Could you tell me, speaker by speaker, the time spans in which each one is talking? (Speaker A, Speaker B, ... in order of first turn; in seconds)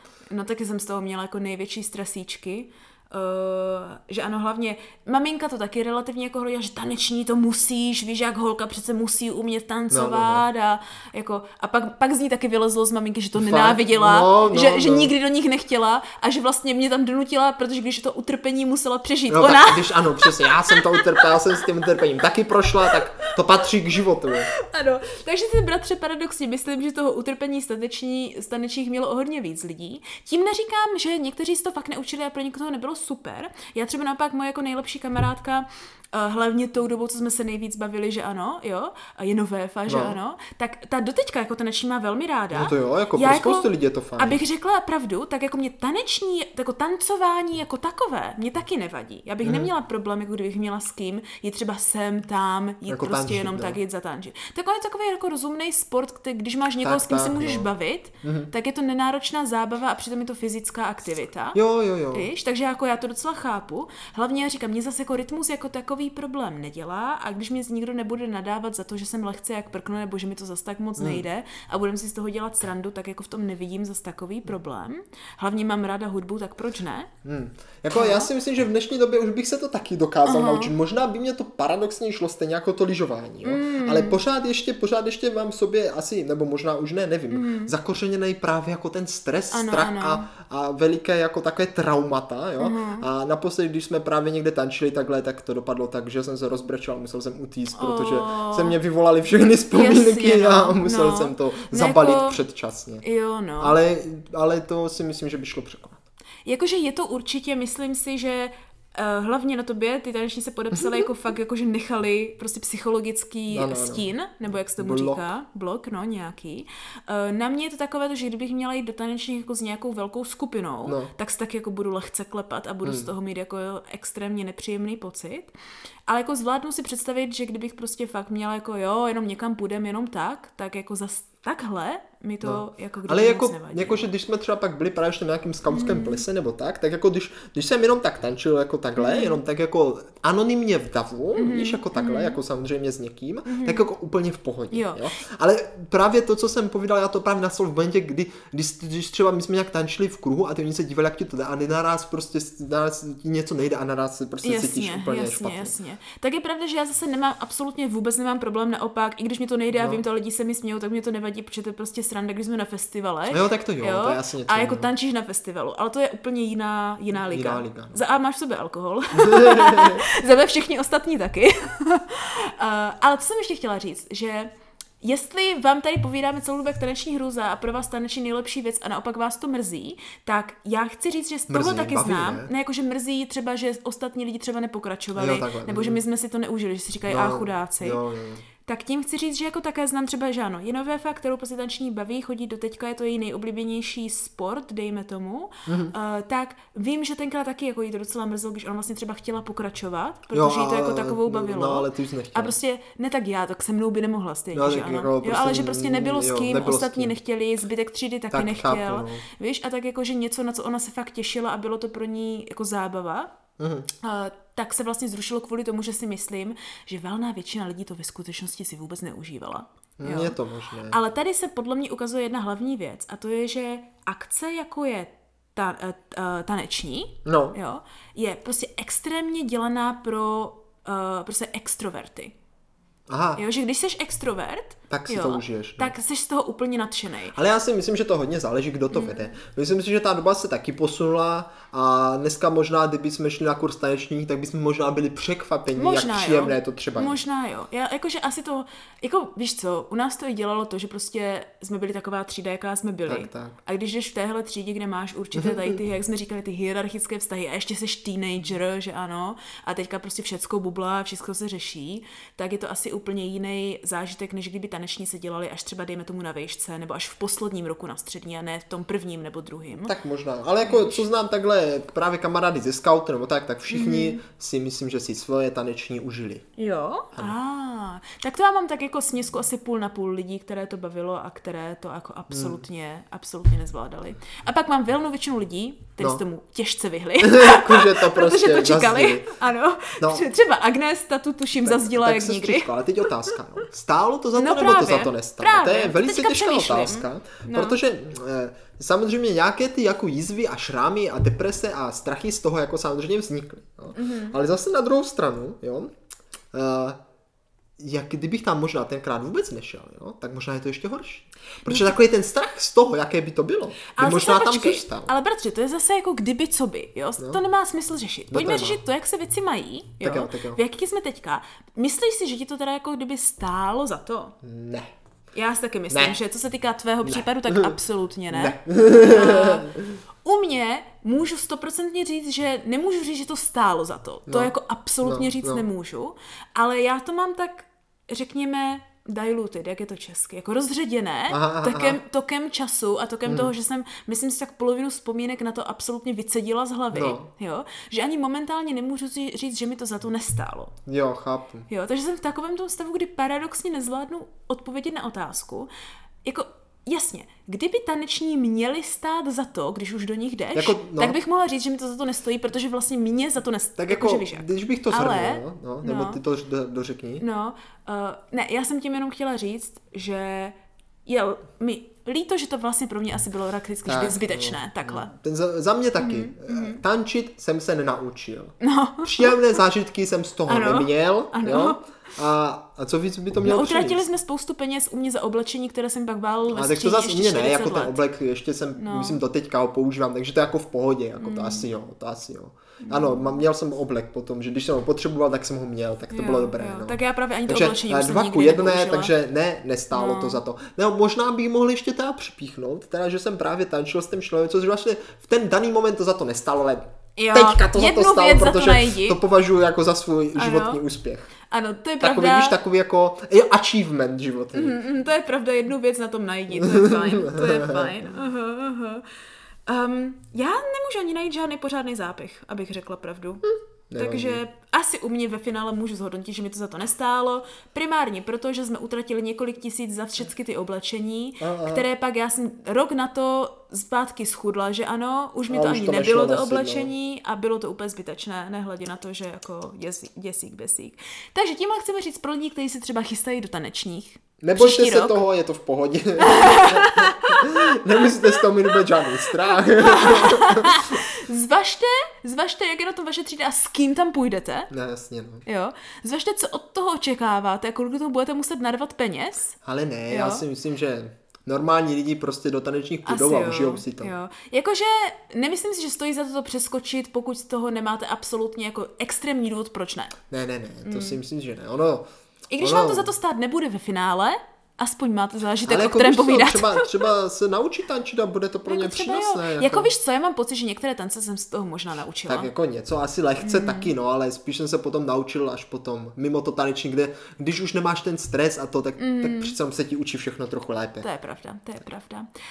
Speaker A: 0.3-22.1, 22.7-23.7, 24.4-61.6, 62.1-77.1, 77.9-78.3, 80.2-80.7, 83.4-84.2, 87.3-87.7, 89.5-90.2, 92.6-93.1, 97.7-98.8, 99.7-102.4, 103.0-103.8, 106.4-125.5, 126.1-134.1, 135.7-136.2, 139.0-139.4, 141.3-142.4, 143.4-143.8, 144.7-145.0, 154.4-174.5, 175.0-188.0, 188.7-213.3, 214.0-220.4, 220.9-232.3, 233.4-237.3, 238.9-239.2, 245.7-269.9, 270.6-271.0, 273.7-274.2, 276.6-293.3, 294.3-297.8, 303.9-304.4, 313.9-324.3, 325.3-329.7, 330.2-350.7, 351.7-355.7, 356.2-366.2, 367.2-370.5, 371.1-375.1, 376.0-376.8, 378.6-379.4, 380.5-381.8, 383.4-388.0, 388.8-389.2, 391.2-391.7, 392.8-393.3, 396.1-399.1, 399.9-400.4, 407.2-409.2, 410.4-410.8, 411.5-412.6, 414.5-419.0, 419.7-423.4, 424.0-445.2, 446.2-448.4, 449.4-454.7, 455.4-459.6, 460.1-460.4, 463.1-470.1, 470.8-471.2, 472.5-477.1, 478.7-482.5, 483.4-483.9, 489.0-489.5, 491.0-492.3
Speaker B: 9.9-10.4, 13.4-15.1, 19.3-24.5, 39.9-40.2, 42.5-44.4, 49.4-49.7, 52.9-53.8, 56.8-57.7, 58.2-58.5, 61.5-62.3, 71.0-71.2, 77.2-103.0, 103.6-106.0, 110.7-111.0, 113.5-115.2, 120.8-121.1, 122.8-123.1, 132.4-155.7, 159.8-160.0, 163.3-164.9, 167.1-168.0, 169.2-170.0, 181.5-182.5, 185.1-186.0, 187.1-188.4, 195.7-195.9, 200.3-202.6, 204.5-207.1, 208.3-209.2, 213.6-213.9, 220.0-221.0, 227.2-227.6, 233.1-233.4, 234.9-235.9, 237.3-247.2, 253.1-253.6, 255.3-255.7, 269.8-276.4, 282.3-282.6, 287.2-289.3, 290.0-290.3, 291.6-305.9, 306.5-307.0, 307.8-315.1, 318.3-318.8, 320.0-320.6, 324.4-324.9, 325.9-326.1, 327.0-327.7, 328.3-330.0, 335.0-335.6, 341.3-342.0, 346.9-347.3, 350.9-351.7, 360.5-361.2, 363.8-367.2, 373.9-384.1, 386.5-411.3, 412.0-414.8, 416.6-417.9, 423.5-424.4, 431.4-431.8, 435.5-436.9, 444.4-451.0, 454.7-455.4, 459.6-464.1, 470.3-472.0, 472.6-473.1, 475.6-479.9, 482.3-491.1